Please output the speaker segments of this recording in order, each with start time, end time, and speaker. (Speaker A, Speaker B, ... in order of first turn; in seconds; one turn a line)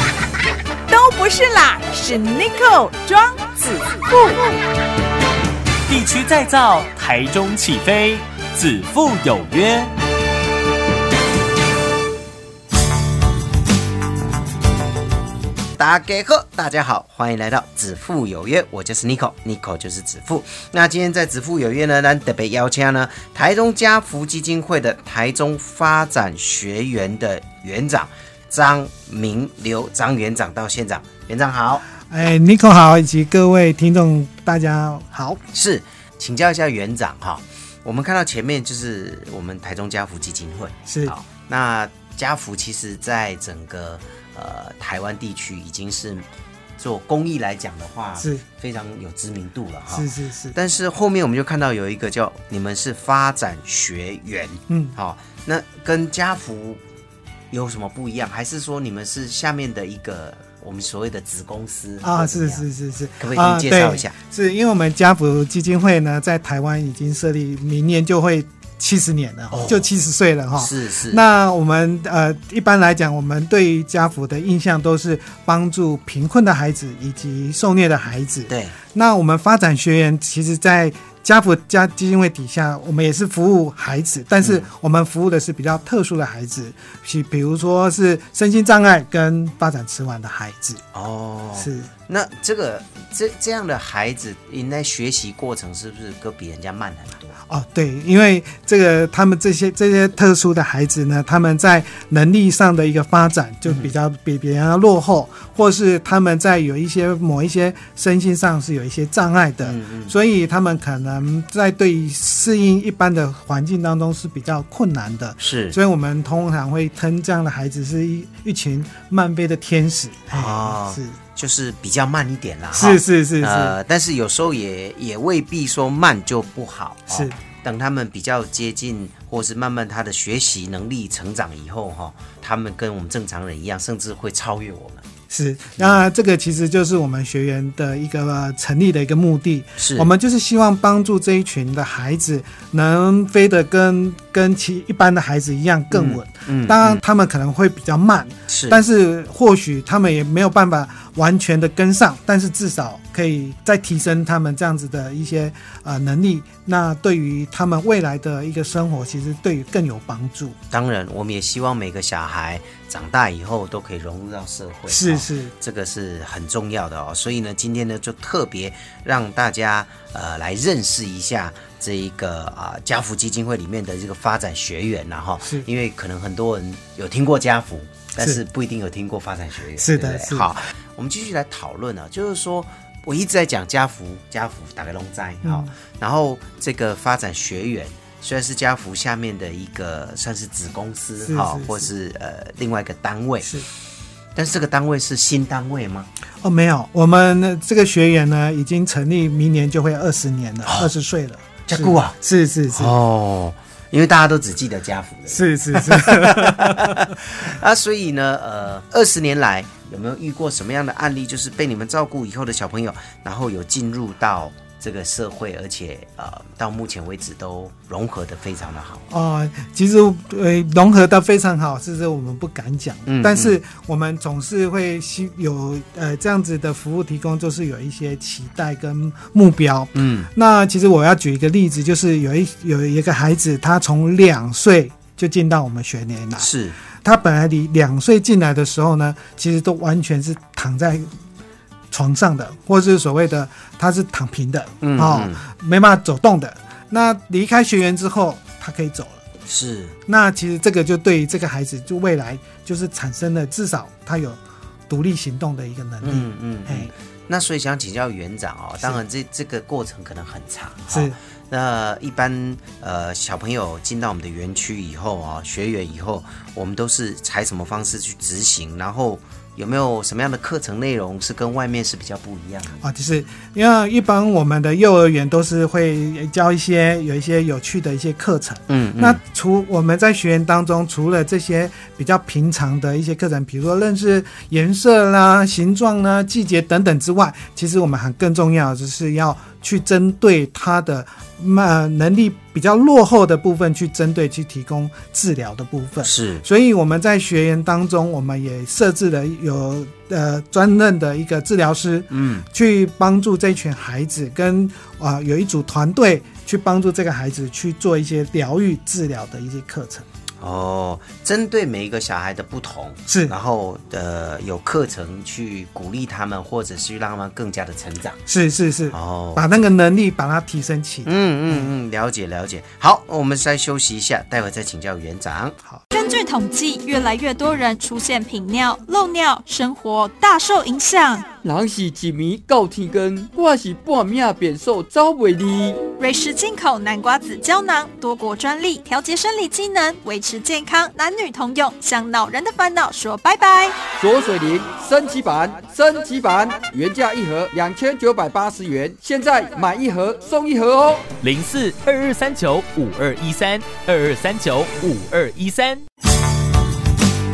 Speaker A: 0.9-3.4
Speaker B: 5.9-8.0
Speaker B: 8.7-9.7
Speaker C: 15.8-31.8
Speaker D: 31.9-35.4
Speaker C: 35.5-46.2
Speaker D: 40.9-41.1
Speaker C: 46.8-56.8
Speaker D: 48.2-48.4
Speaker D: 49.9-50.5
Speaker D: 54.7-54.9
Speaker C: 57.5-62.6
Speaker D: 62.0-90.8
Speaker C: 63.2-64.1
Speaker C: 69.5-69.9
Speaker C: 70.5-71.2
Speaker C: 78.5-78.8
Speaker C: 84.4-84.7
Speaker C: 90.9-97.3
Speaker D: 91.5-91.9
Speaker D: 97.5-121.2
Speaker C: 103.7-103.9
Speaker C: 109.6-110.1
Speaker C: 115.4-115.8
Speaker C: 120.3-135.0
Speaker D: 122.7-123.7
Speaker D: 127.1-127.4
Speaker D: 135.3-160.6
Speaker C: 135.8-136.0
Speaker C: 139.8-140.1
Speaker C: 145.9-147.0
Speaker C: 148.5-148.8
Speaker C: 160.7-193.5
Speaker D: 164.9-165.5
Speaker D: 179.8-180.5
Speaker D: 185.4-185.7
Speaker D: 191.2-191.9
Speaker D: 193.4-193.7
Speaker C: 194.3-196.1
Speaker D: 196.4-202.9
Speaker C: 200.7-200.9
Speaker C: 201.7-202.2
Speaker C: 202.7-219.1
Speaker D: 205.3-207.1
Speaker D: 219.1-236.5
Speaker C: 223.1-223.6
Speaker C: 229.9-230.3
Speaker C: 236.4-236.8
Speaker D: 237.0-241.1
Speaker D: 241.9-249.2
Speaker C: 244.8-245.4
Speaker C: 249.4-249.9
Speaker D: 250.1-256.9
Speaker C: 256.0-272.8
Speaker D: 260.9-261.2
Speaker D: 272.8-310.1
Speaker C: 278.7-279.2
Speaker C: 296.0-296.4
Speaker C: 302.1-302.5
Speaker C: 310.4-318.2
Speaker D: 313.1-313.3
Speaker D: 318.3-321.7
Speaker C: 318.9-319.4
Speaker C: 321.0-325.6
Speaker E: 325.9-331.2
Speaker F: 331.4-335.8
Speaker E: 336.0-343.8
Speaker F: 344.0-351.1
Speaker B: 352.1-352.4